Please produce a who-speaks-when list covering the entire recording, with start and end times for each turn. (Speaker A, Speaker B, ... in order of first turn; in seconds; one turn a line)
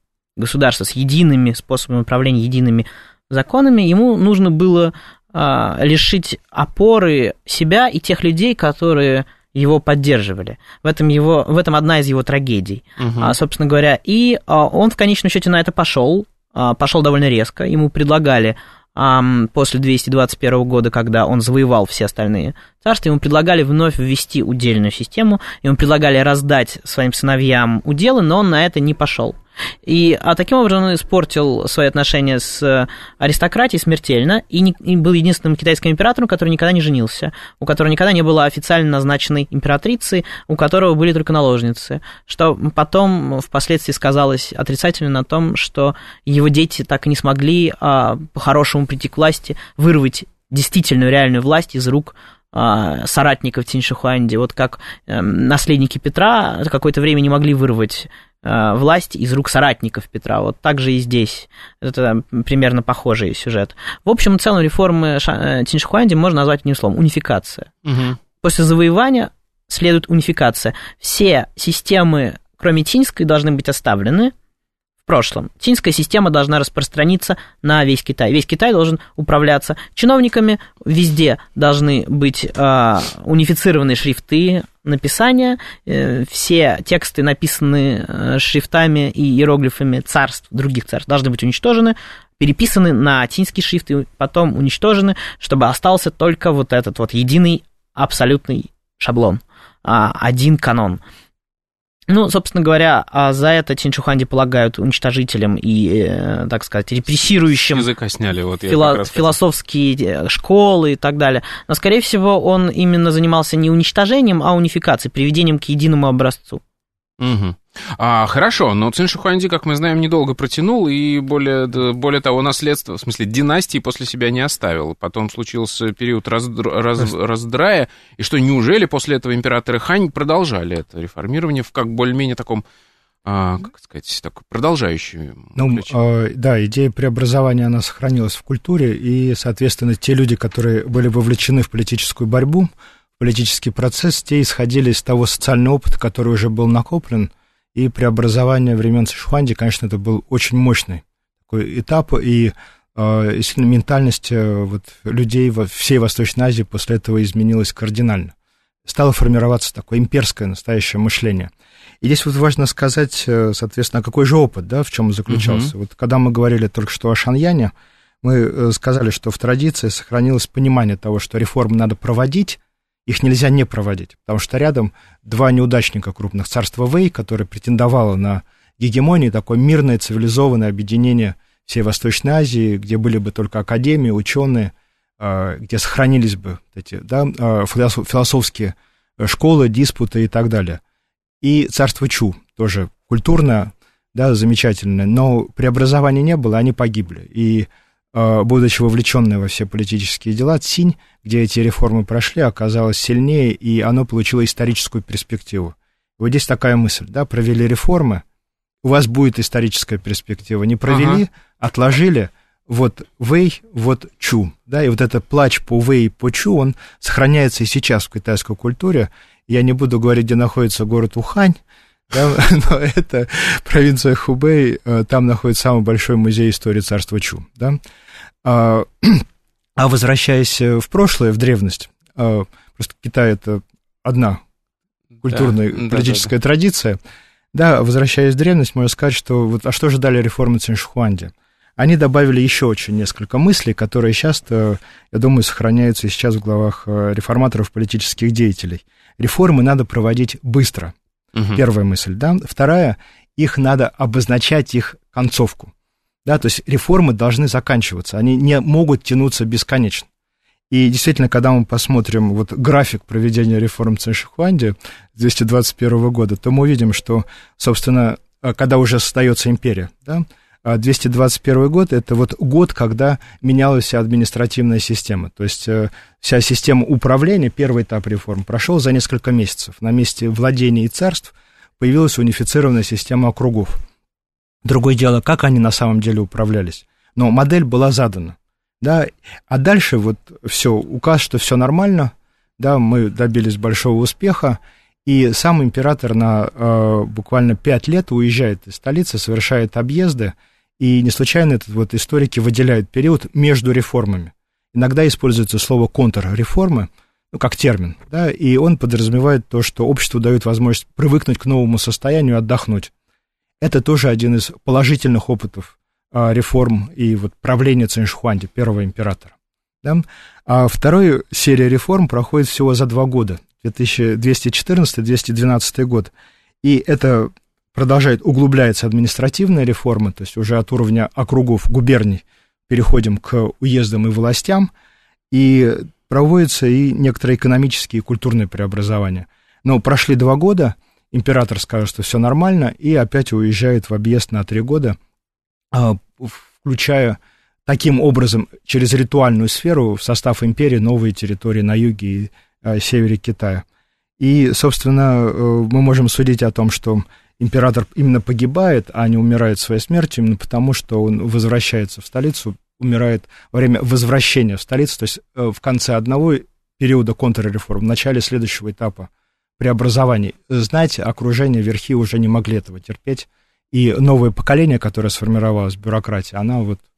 Speaker A: 0.4-67.7
Speaker B: 13.0-13.3
Speaker B: 67.8-68.2
Speaker A: 68.4-74.3
Speaker A: 75.0-101.0
Speaker A: 102.1-107.8
Speaker B: 107.5-109.3
Speaker A: 108.7-116.6
Speaker B: 117.2-132.6
Speaker B: 133.2-135.9
Speaker C: 135.6-158.3
Speaker C: 158.8-190.8
Speaker B: 165.3-165.7
Speaker C: 191.4-208.2
Speaker C: 208.8-227.8
Speaker B: 210.9-211.2
Speaker C: 228.4-229.2
Speaker C: 229.8-234.4
Speaker B: 235.2-236.3
Speaker C: 235.2-237.0
Speaker C: 237.5-250.9
Speaker B: 251.3-251.6
Speaker C: 251.5-255.7
Speaker C: 256.2-260.1
Speaker C: 260.7-283.8
Speaker C: 284.6-312.9
Speaker C: 313.6-334.7
Speaker C: 335.3-344.9
Speaker C: 345.7-353.6
Speaker C: 354.2-376.8